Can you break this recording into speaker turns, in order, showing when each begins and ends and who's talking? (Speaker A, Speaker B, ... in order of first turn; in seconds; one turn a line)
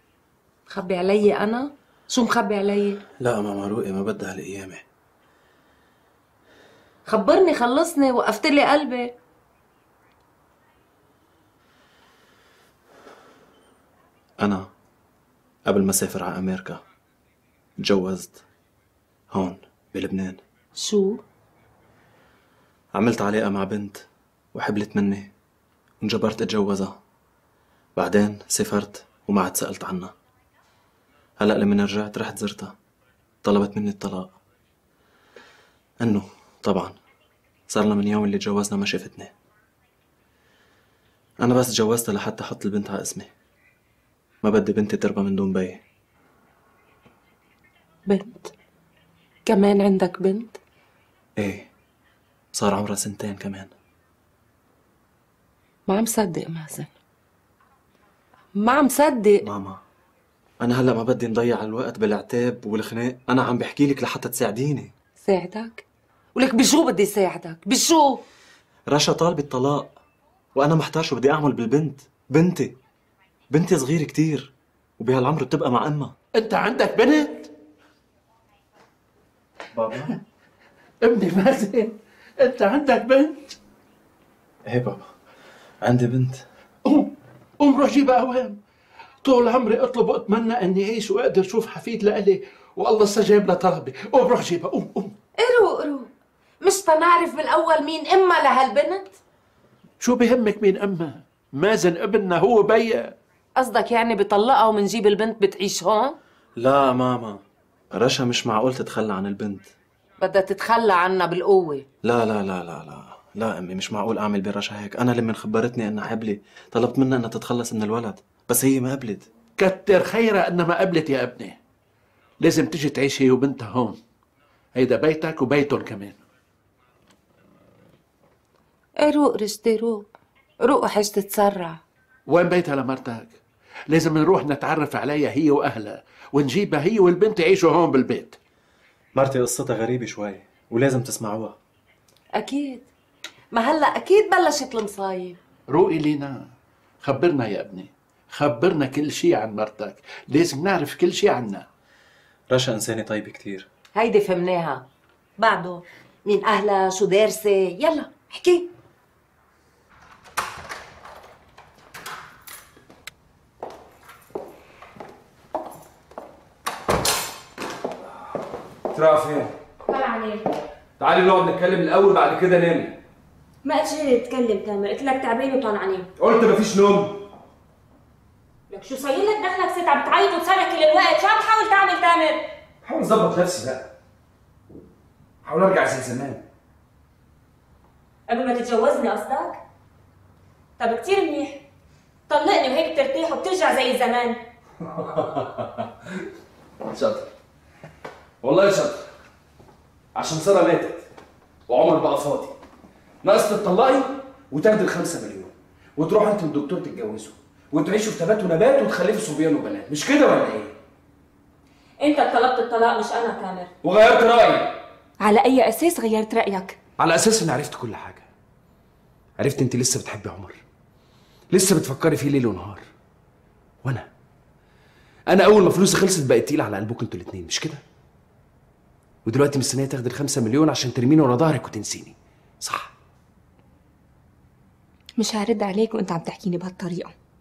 Speaker A: 0.7-3.0
Speaker B: 3.2-4.8
Speaker A: 7.1-9.1
Speaker B: 14.4-14.7
Speaker B: 15.7-16.8
Speaker B: 17.8-18.4
Speaker B: 19.3-20.4
Speaker A: 20.8-21.2
Speaker B: 22.9-25.3
Speaker B: 26.0-26.9
Speaker B: 27.9-30.1
Speaker B: 31.4-32.7
Speaker B: 33.4-34.4
Speaker B: 36.0-36.9
Speaker B: 37.7-39.3
Speaker B: 41.4-43.3
Speaker B: 44.4-45.8
Speaker A: 48.1-48.5
Speaker A: 49.5-50.6
Speaker B: 51.4-51.7
Speaker B: 52.5-53.7
Speaker A: 55.9-56.9
Speaker A: 58.5-59.4
Speaker B: 59.4-59.8
Speaker B: 60.6-64.9
Speaker A: 65.2-65.8
Speaker A: 66.3-68.2
Speaker B: 68.9-69.9
Speaker B: 70.5-72.7
Speaker B: 73.5-76.1
Speaker C: 76.3-77.5
Speaker B: 79.7-80.1
Speaker C: 81.0-83.6
Speaker B: 84.7-85.1
Speaker B: 85.8-86.5
Speaker C: 86.8-88.6
Speaker C: 89.2-95.2
Speaker A: 95.4-96.1
Speaker A: 96.6-99.1
Speaker C: 100.0-103.1
Speaker A: 103.5-106.2
Speaker B: 106.6-107.4
Speaker B: 107.9-109.7
Speaker A: 110.2-111.8
Speaker B: 112.0-119.3
Speaker C: 119.6-121.5
Speaker C: 122.4-124.0
Speaker C: 124.7-126.2
Speaker A: 129.0-130.1
Speaker A: 130.6-131.8
Speaker C: 132.3-133.4
Speaker C: 133.9-138.4
Speaker B: 139.1-141.6
Speaker A: 142.3-142.9
Speaker A: 143.5-145.4
Speaker C: 145.7-146.5
Speaker C: 147.0-151.7
Speaker B: 152.5-153.7
Speaker A: 153.9-154.9
Speaker A: 155.4-158.7
Speaker D: 168.9-169.5
Speaker E: 169.8-170.4
Speaker D: 171.0-173.0
Speaker E: 173.6-176.1
Speaker D: 176.2-177.3
Speaker E: 178.7-182.4
Speaker D: 182.8-183.9
Speaker D: 185.4-186.4
Speaker E: 188.3-189.6
Speaker E: 190.8-191.6
Speaker E: 192.3-194.4
Speaker D: 195.0-195.4
Speaker D: 196.9-197.3
Speaker D: 198.4-199.0
Speaker D: 200.2-201.0
Speaker D: 201.7-202.5
Speaker D: 203.2-210.7
Speaker E: 212.0-213.7
Speaker D: 213.8-214.8
Speaker E: 215.2-216.8
Speaker D: 217.0-218.3
Speaker D: 219.4-220.6
Speaker D: 221.5-222.8
Speaker D: 225.3-227.8
Speaker D: 229.2-232.9
Speaker E: 235.2-237.1